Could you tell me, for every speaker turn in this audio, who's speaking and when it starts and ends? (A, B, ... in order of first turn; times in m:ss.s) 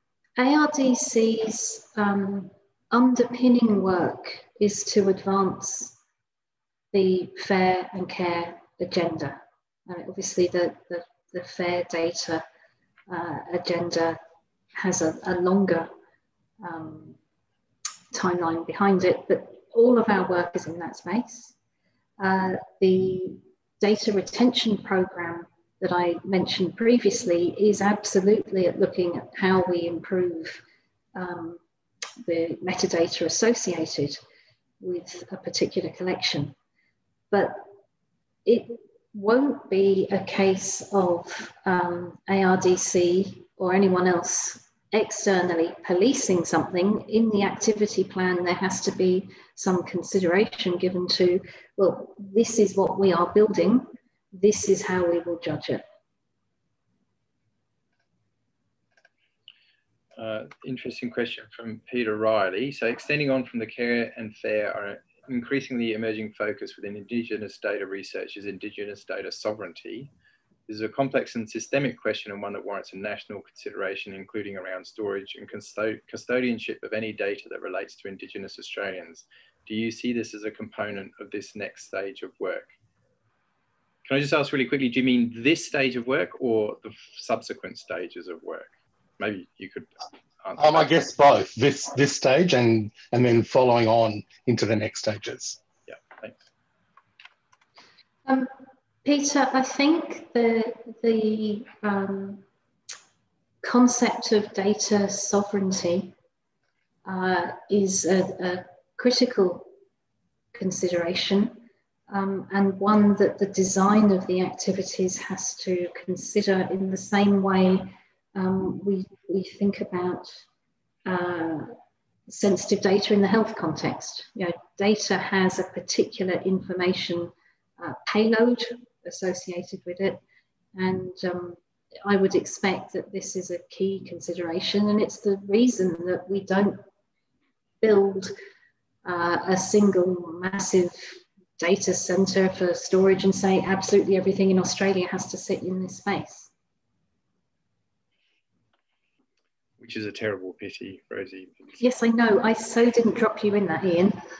0:00.4-0:06.0 A
0:06.9-0:12.4 A
0:13.1-0:14.2 A
0:14.7-0:15.9 A
0:16.6-0:17.2 A
0:18.1-0:21.5 A
0:22.2-0:30.6 A
0:31.1-0:31.6 A
0:32.2-0:34.2 A
0:34.8-0:36.5 A
0:37.3-0:37.6 A
0:38.4-0:55.8 A
1:00.2-1:10.1 B
1:10.7-1:22.7 B
1:24.0-1:31.0 B
1:30.6-1:35.6 C
1:35.9-1:36.4 B
1:38.2-1:38.5 A
1:39.0-1:42.4 A
1:43.6-1:46.1 A
1:47.0-1:49.7 A
1:50.5-2:00.4 A
2:01.0-2:01.7 A
2:02.3-2:10.2 A
2:10.8-2:16.8 A
2:17.8-2:18.3 A
2:19.0-2:26.5 A
2:29.8-2:31.6 B
2:31.8-2:34.2 A